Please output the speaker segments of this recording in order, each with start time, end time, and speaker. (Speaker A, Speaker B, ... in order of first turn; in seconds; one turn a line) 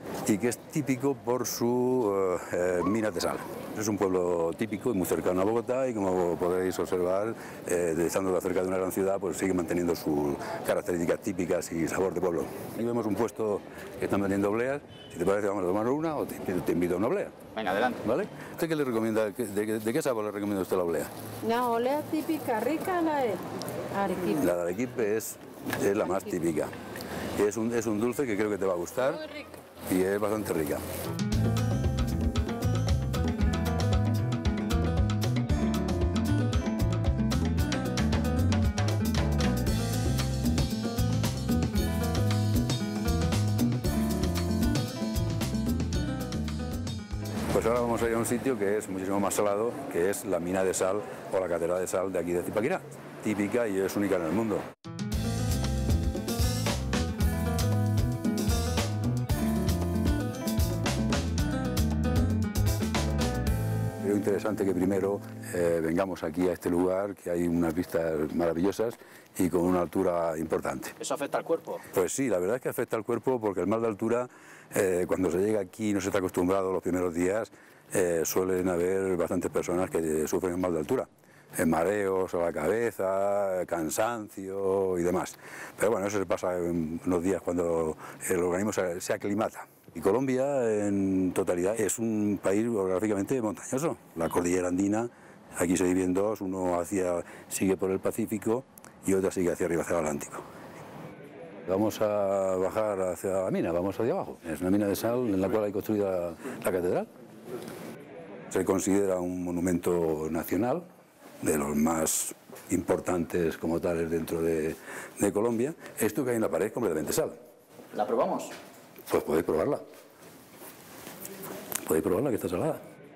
Speaker A: 0.2-17.4
Speaker B: 17.5-18.0
Speaker A: 18.0-21.1
Speaker C: 21.4-24.5
Speaker A: 24.3-26.7
Speaker A: 27.4-29.2
Speaker C: 29.2-29.4
Speaker A: 29.9-30.8
Speaker A: 47.5-54.7
Speaker A: 64.0-71.0
Speaker B: 71.0-71.8
Speaker A: 71.9-100.4
Speaker A: 101.7-107.1
Speaker A: 108.5-110.9
Speaker A: 111.4-117.4
Speaker B: 117.9-118.5
Speaker A: 119.1-119.8
Speaker A: 121.8-122.8